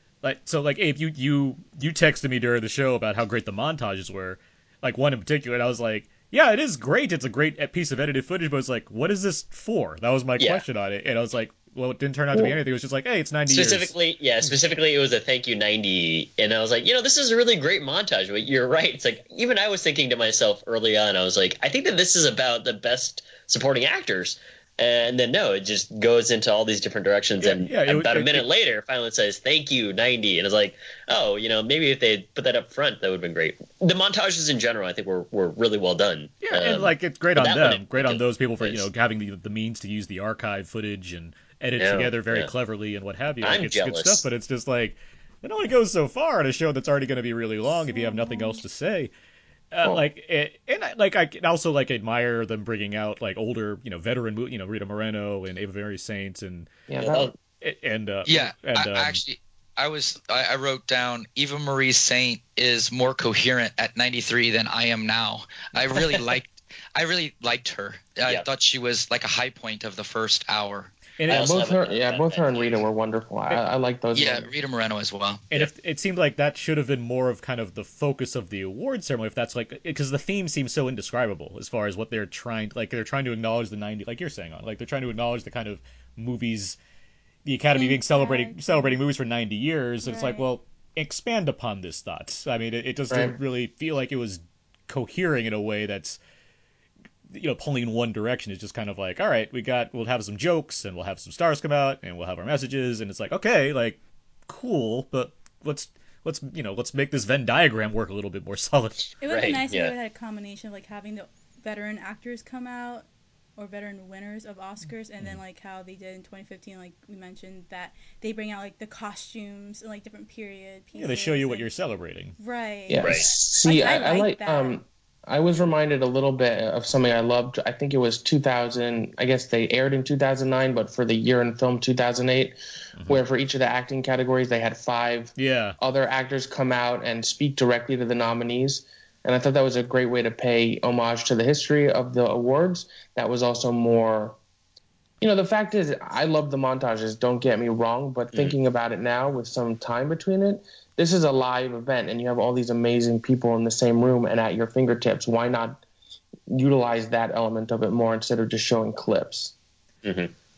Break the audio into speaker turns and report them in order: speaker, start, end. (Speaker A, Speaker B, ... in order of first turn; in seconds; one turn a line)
Speaker A: 0.2-13.9
Speaker B: 13.5-38.9
Speaker A: 27.4-28.5
Speaker A: 36.4-49.1
Speaker B: 41.8-42.5
Speaker B: 43.4-44.3
Speaker C: 47.9-48.6
Speaker A: 49.7-56.7
Speaker D: 56.9-57.3
Speaker B: 57.0-57.3
Speaker A: 57.6-59.2
Speaker E: 58.3-71.0
Speaker A: 71.2-71.5
Speaker B: 71.3-72.9
Speaker D: 71.3-74.5
Speaker E: 74.1-75.5
Speaker A: 75.5-86.8
Speaker A: 87.5-96.2
Speaker C: 87.7-89.0
Speaker C: 90.0-90.5
Speaker D: 93.1-93.4
Speaker A: 97.3-109.1
Speaker B: 109.2-110.0
Speaker C: 109.2-113.1
Speaker C: 113.6-121.7
Speaker A: 121.0-122.3
Speaker C: 122.4-124.8
Speaker D: 122.9-144.4
Speaker B: 123.0-123.3
Speaker A: 135.4-135.8
Speaker D: 145.2-155.8
Speaker D: 156.5-159.5
Speaker B: 160.0-160.3